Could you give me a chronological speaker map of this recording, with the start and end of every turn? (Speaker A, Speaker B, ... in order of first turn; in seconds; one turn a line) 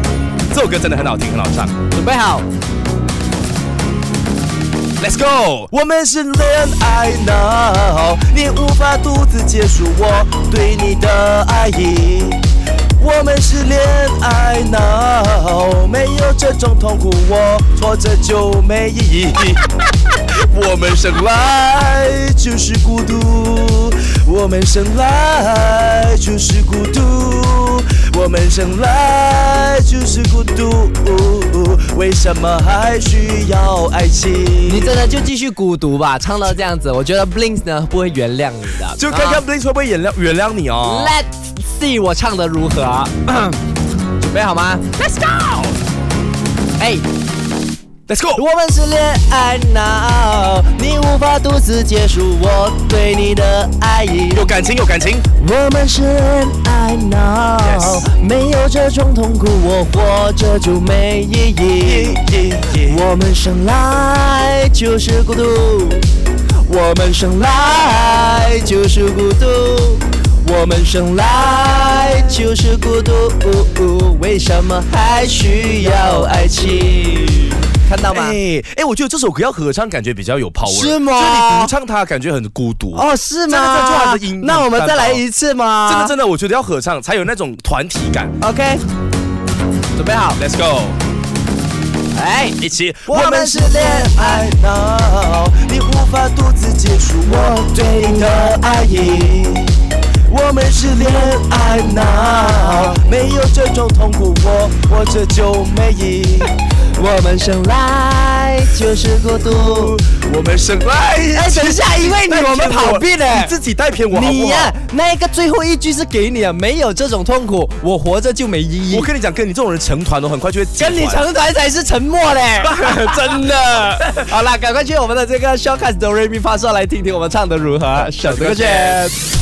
Speaker A: 0.5-1.8
Speaker B: 1.9-2.4
Speaker A: 5.0-12.4
Speaker A: 13.0-19.6
Speaker A: 20.3-34.9
Speaker B: 34.6-39.4
Speaker A: 39.0-41.2
Speaker B: 40.8-43.6
Speaker B: 44.2-44.9
Speaker A: 45.0-45.8
Speaker B: 46.8-47.0
Speaker A: 48.1-48.4
Speaker B: 48.3-54.5
Speaker A: 54.3-55.3
Speaker B: 55.4-62.2
Speaker A: 57.6-58.1
Speaker A: 61.8-63.0
Speaker B: 62.9-66.0
Speaker B: 66.6-78.4
Speaker A: 78.1-85.2
Speaker B: 80.6-81.7
Speaker B: 82.9-86.1
Speaker A: 85.8-88.3
Speaker B: 88.4-88.8
Speaker B: 89.9-90.4
Speaker A: 90.3-91.0
Speaker B: 92.1-94.5
Speaker A: 92.6-98.7
Speaker B: 97.2-99.7
Speaker A: 100.3-106.5
Speaker B: 101.0-103.0
Speaker B: 107.0-110.0
Speaker A: 109.5-114.7
Speaker B: 111.3-113.5
Speaker B: 114.1-119.1
Speaker A: 118.9-121.3
Speaker B: 120.8-129.1
Speaker A: 122.6-124.3
Speaker A: 128.0-129.0